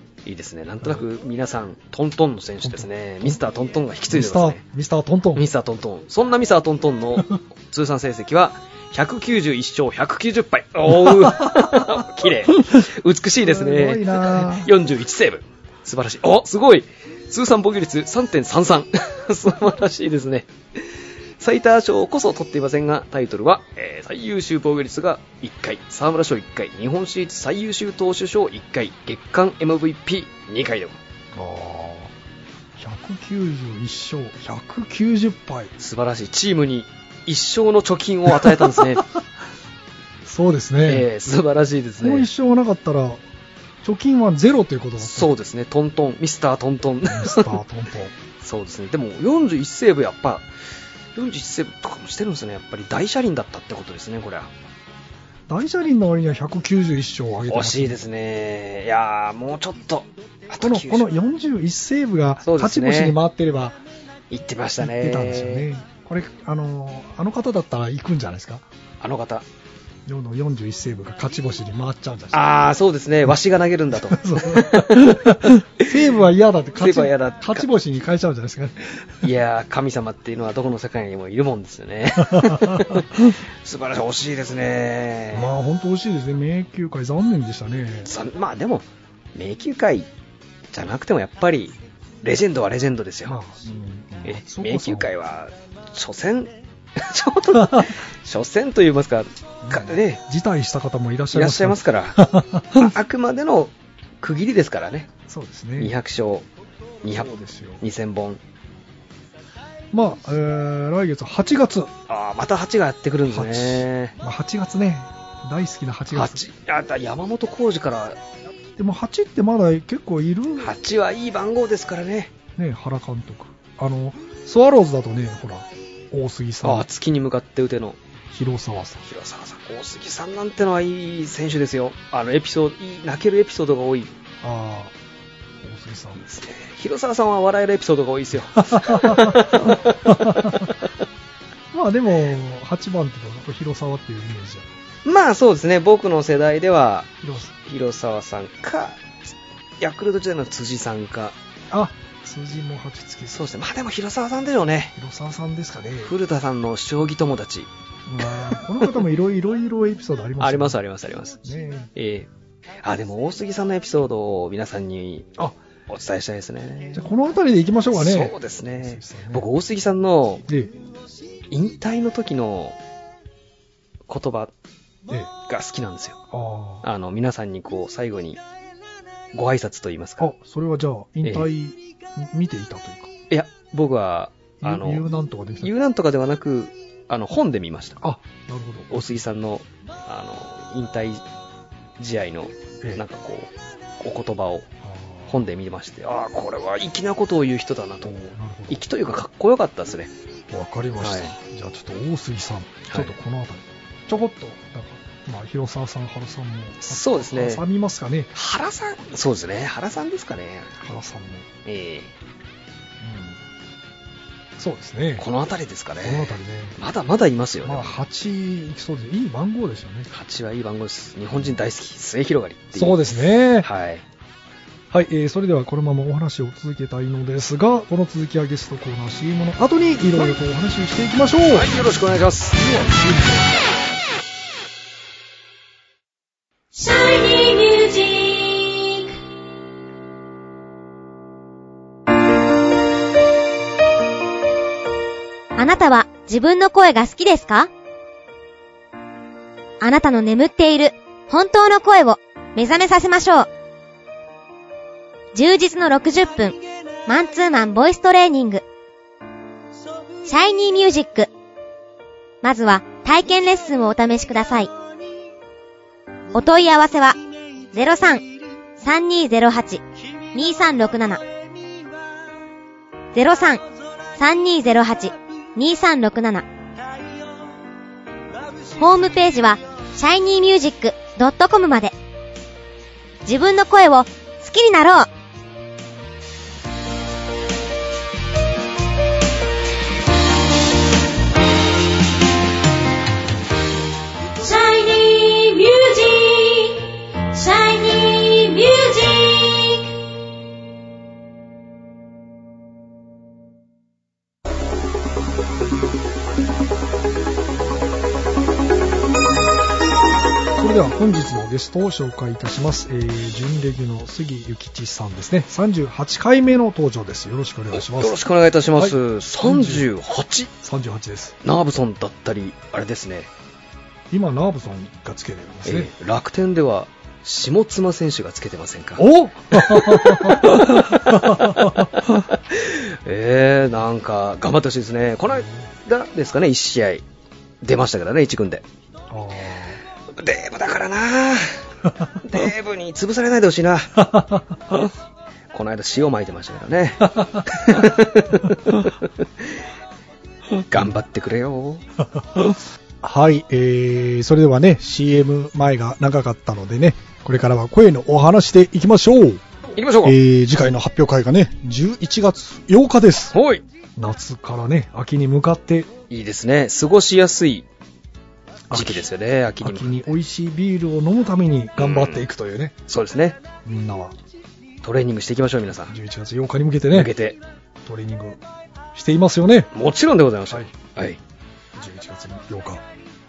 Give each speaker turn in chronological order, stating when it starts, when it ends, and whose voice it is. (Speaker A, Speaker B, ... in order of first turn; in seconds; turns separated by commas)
Speaker A: 0.2-4.6, Speaker B: 2.6-3.4, Speaker B: 4.1-5.5, Speaker A: 5.3-20.8, Speaker B: 11.0-12.0, Speaker B: 13.4-14.7, Speaker A: 21.4-31.0, Speaker B: 31.3-32.1, Speaker B: 32.8-35.7, Speaker A: 35.8-39.0, Speaker B: 38.3-39.2, Speaker B: 40.2-41.1, Speaker A: 40.9-42.3, Speaker B: 42.0-43.2, Speaker B: 43.8-45.3, Speaker A: 45.0-47.6, Speaker B: 47.1-48.1, Speaker A: 48.4-50.5, Speaker A: 51.1-54.5, Speaker B: 55.5-58.0, Speaker A: 57.5-61.1, Speaker B: 60.6-63.8, Speaker A: 62.4-63.2, Speaker A: 64.3-65.7, Speaker B: 64.8-68.6, Speaker A: 69.0-69.5, Speaker B: 70.1-72.5, Speaker A: 72.3-75.9, Speaker B: 73.9-79.2, Speaker A: 76.8-77.7, Speaker A: 79.2-85.5, Speaker B: 82.2-83.3, Speaker B: 85.3-88.1, Speaker A: 88.1-90.1, Speaker A: 90.7-93.4, Speaker B: 93.3-95.1, Speaker A: 94.2-100.2, Speaker B: 97.5-97.9, Speaker B: 99.6-102.9, Speaker A: 101.3-105.1, Speaker B: 105.3-105.9, Speaker A: 105.8-106.5, Speaker A: 107.0-108.4, Speaker B: 107.1-107.8, Speaker B: 109.9-111.9, Speaker A: 112.1-114.2, Speaker B: 113.3-116.4, Speaker A: 116.1-118.2, Speaker B: 118.8-120.7, Speaker A: 120.6-122.3, Speaker B: 122.6-126.9, Speaker A: 126.6-128.0, Speaker B: 128.3-129.0, Speaker A: 129.0-134.2, Speaker B: 134.4-134.9, Speaker B: 135.6-136.2, Speaker A: 136.2-140.8, Speaker B: 138.6-140.7, Speaker B: 141.7-144.7, Speaker A: 145.1-149.0, Speaker B: 147.2-147.5, Speaker A: 149.8-151.4, Speaker B: 151.7-153.4, Speaker A: 153.3-154.9, Speaker B: 155.0-156.1, Speaker A: 156.0-157.7, Speaker B: 158.1-160.8, Speaker A: 158.2-159.0, Speaker A: 160.4-161.4, Speaker B: 161.4-161.9, Speaker A: 161.9-162.3, Speaker A: 162.8-165.3, Speaker A: 165.9-167.1, Speaker B: 166.9-169.5, Speaker A: 167.9-170.4, Speaker B: 170.5-170.7, Speaker A: 171.5-172.8, Speaker A: 174.1-174.5, Speaker A: 175.5-176.2, Speaker B: 176.3-176.8, Speaker A: 176.8-178.4, Speaker A: 179.3-180.3, Speaker B: 180.2-183.1, Speaker A: 183.3-185.1, Speaker B: 184.6-185.7, Speaker A: 185.6-188.0, Speaker B: 188.0-189.1, Speaker A: 188.9-191.2, Speaker A: 192.0-194.7, Speaker B: 194.8-195.4, Speaker A: 195.3-198.1, Speaker B: 198.0-198.8, Speaker A: 198.7-200.1, Speaker B: 200.5-208.3, Speaker A: 201.0-201.3, Speaker A: 202.9-203.1, Speaker A: 206.8-207.6, Speaker A: 208.3-210.7, Speaker B: 210.8-211.5, Speaker A: 211.7-212.1, Speaker B: 213.0-213.4, Speaker B: 214.6-215.2, Speaker A: 215.2-218.0, Speaker B: 216.0-216.8, Speaker B: 217.6-220.1, Speaker A: 220.1-223.0, Speaker B: 222.7-223.7, Speaker A: 223.6-224.1, Speaker B: 224.9-231.7, Speaker A: 231.5-232.6, Speaker B: 232.5-233.6, Speaker C: 236.8-239.1, Speaker C: 245.6-247.7, Speaker C: 249.8-253.5, Speaker C: 255.3-258.6, Speaker C: 260.3-261.3, Speaker C: 262.4-264.7, Speaker C: 266.3-267.2, Speaker C: 267.7-268.2, Speaker C: 268.8-271.2, Speaker C: 273.1-273.6, Speaker C: 274.2-276.5, Speaker C: 278.8-281.9, Speaker C: 283.3-285.1, Speaker C: 294.4-300.0, Speaker B: 310.6-318.2, Speaker A: 317.7-320.5, Speaker B: 318.8-319.9, Speaker B: 320.6-321.4, Speaker A: 321.4-323.3, Speaker B: 324.1-325.9, Speaker A: 325.7-337.0, Speaker B: 329.0-332.2, Speaker B: 335.3-335.7, Speaker A: 337.6-338.6, Speaker B: 339.1-339.8, Speaker A: 340.1-341.6, Speaker A: 342.2-344.0, Speaker B: 344.0-344.8, Speaker A: 345.5-349.2, Speaker B: 347.1-347.7, Speaker A: 350.7-351.9, Speaker B: 352.1-359.4, Speaker A: 359.8-360.2, Speaker B: 360.0-363.4, Speaker A: 363.3-363.6, Speaker B: 364.0-365.9, Speaker A: 366.1-367.7, Speaker B: 368.7-369.1, Speaker A: 368.7-370.1, Speaker B: 369.6-372.8, Speaker A: 371.8-372.3, Speaker A: 372.9-373.4, Speaker B: 373.6-374.2, Speaker A: 374.8-375.9, Speaker B: 375.9-377.1, Speaker A: 376.9-377.4, Speaker B: 377.8-378.4, Speaker B: 378.9-379.7, Speaker A: 379.7-381.2, Speaker B: 380.5-380.9, Speaker B: 381.8-382.8